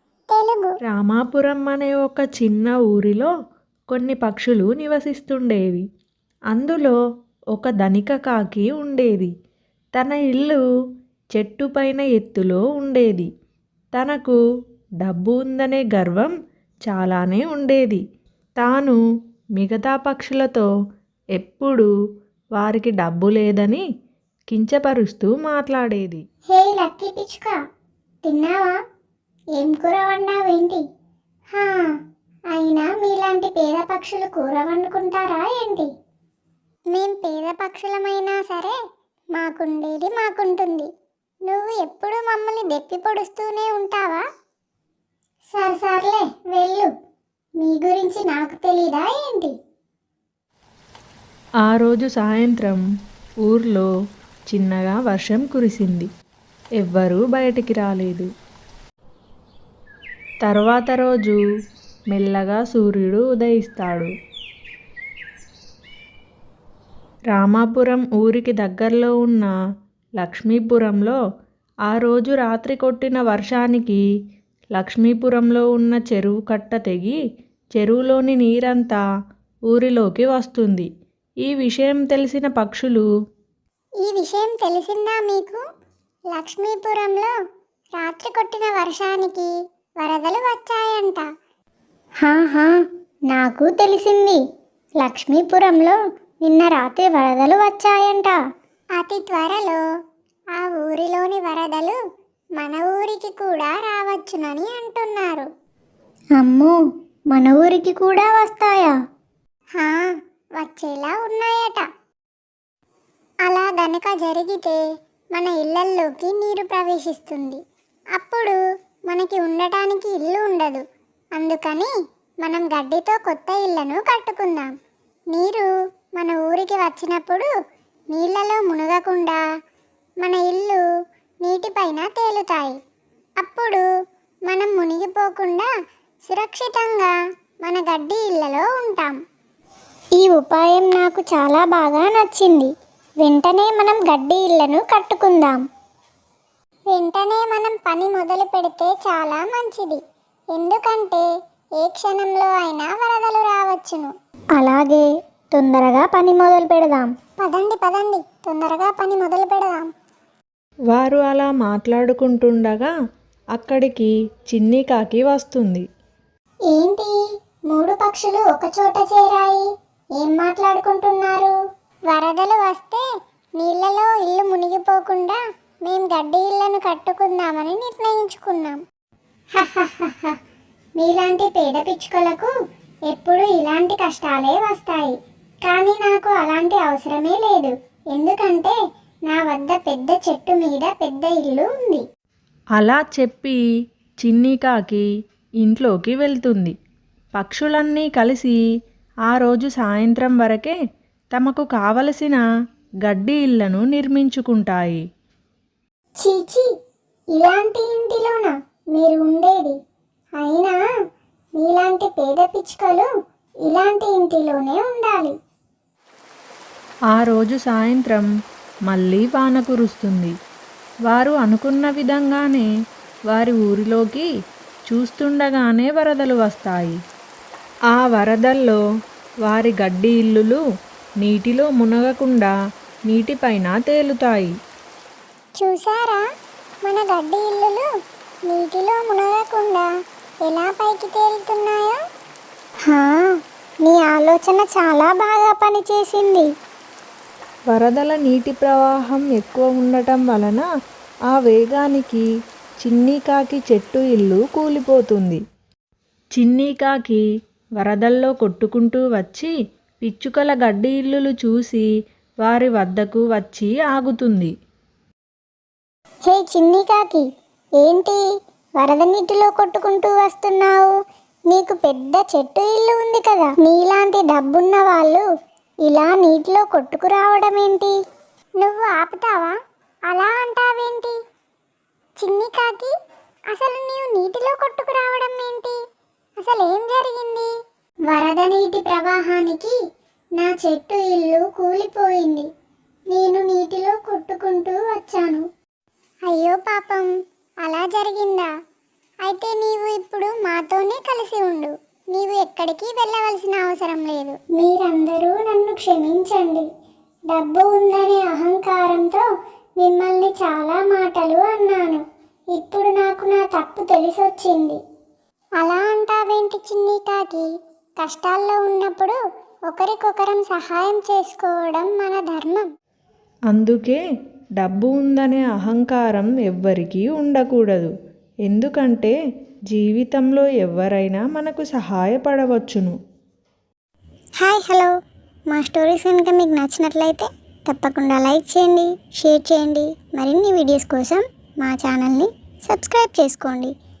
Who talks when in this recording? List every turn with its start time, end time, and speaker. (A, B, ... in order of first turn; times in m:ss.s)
0:00.3-0:00.7 A
0:00.9-0:03.3 B
0:03.9-0:05.8 B
0:06.5-0:07.0 B
0:07.5-0:09.3 B
0:10.0-0:10.6 B
0:11.3-0:13.3 B
0:13.9-0:14.4 B
0:15.0-0:16.3 B
0:16.9-0:18.0 B
0:18.6-0:19.0 B
0:19.6-0:20.7 B
0:21.4-0:21.9 B
0:22.6-0:23.8 B
0:24.5-0:26.2 B
0:26.5-0:27.6 A
0:28.2-0:28.8 A
0:29.6-0:30.8 A
0:31.5-0:31.9 A
0:32.5-0:35.9 A
0:36.9-0:38.8 A
0:39.3-0:40.9 A
0:41.5-0:44.2 A
0:45.5-0:46.9 A
0:47.6-0:49.5 A
0:51.6-0:52.8 B
0:53.4-0:53.9 B
0:54.5-0:56.1 B
0:56.8-0:58.3 B
1:00.4-1:01.4 B
1:02.1-1:04.1 B
1:07.3-1:09.5 B
1:10.2-1:11.2 B
1:11.9-1:14.0 B
1:14.8-1:17.2 B
1:17.8-1:19.0 B
1:19.7-1:20.9 B
1:21.4-1:23.1 B
1:24.0-1:25.6 A
1:26.3-1:27.3 A
1:28.0-1:31.2 A
1:32.2-1:34.4 A
1:35.0-1:38.4 A
1:39.0-1:39.8 A
1:40.6-1:42.0 A
1:42.6-1:45.5 A
1:46.4-1:49.0 A
1:49.8-1:51.9 A
1:53.4-1:54.8 A
1:55.3-1:57.6 A
1:58.2-2:00.8 A
2:01.3-2:04.7 A
2:05.3-2:07.5 A
2:08.1-2:09.4 A
2:10.2-2:10.9 A
2:11.4-2:12.8 A
2:13.4-2:13.9 A
2:14.4-2:15.7 A
2:16.2-2:17.1 A
2:17.6-2:19.2 A
2:20.2-2:25.6 A
2:26.9-2:30.0 A
2:30.5-2:31.2 A
2:31.8-2:39.9 A
2:40.9-2:42.9 B
2:43.6-2:45.8 B
2:46.7-2:47.2 A
2:47.7-2:49.6 A
2:50.2-2:51.6 A
2:52.1-2:53.0 A
2:53.6-2:58.8 A
2:59.5-3:00.4 A
3:01.0-3:02.5 A
3:03.1-3:08.8 A
3:09.3-3:12.0 A
3:12.8-3:13.6 B
3:14.2-3:15.1 B
3:15.6-3:16.7 B
3:17.3-3:18.6 B
3:19.3-3:20.8 B
3:21.3-3:22.4 B
3:23.0-3:25.0 B
3:26.2-3:26.7 A
3:27.4-3:29.8 A
3:30.4-3:30.8 A
3:31.6-3:33.1 A
3:33.7-3:35.4 A
3:37.1-3:38.3 B
3:38.9-3:40.3 B
3:41.1-3:42.7 B
3:43.3-3:44.3 B
3:44.9-3:47.0 B
3:47.9-3:48.8 B
3:49.4-3:50.6 B
3:51.2-3:52.5 B
3:53.1-3:54.5 B
3:55.6-3:56.2 A
3:56.8-3:57.9 A
3:58.5-3:59.9 A
4:00.4-4:02.0 A
4:02.9-4:06.5 A
4:07.7-4:10.7 B
4:11.3-4:12.2 B
4:12.8-4:15.4 B
4:16.4-4:17.2 B
4:17.8-4:21.9 B
4:22.4-4:24.5 B
4:26.3-4:27.2 A
4:27.8-4:28.2 A
4:28.8-4:30.9 A
4:31.5-4:35.2 A
4:35.8-4:37.9 A
4:38.6-4:39.6 A
4:40.1-4:41.2 A
4:42.2-4:42.9 A
4:43.5-4:45.8 A
4:46.4-4:47.5 A
4:48.1-4:49.8 A
4:50.4-4:52.5 A
4:53.1-4:55.4 A
4:56.2-4:57.1 A
4:57.6-4:58.5 A
4:59.2-5:06.7 A
5:07.3-5:09.3 A
5:09.8-5:14.8 A
5:15.6-5:17.5 A
5:18.0-5:19.2 A
5:19.7-5:22.7 A
5:23.5-5:24.0 B
5:24.6-5:27.9 B
5:28.4-5:29.2 B
5:29.7-5:33.0 B
5:34.4-5:34.9 A
5:35.5-5:43.7 A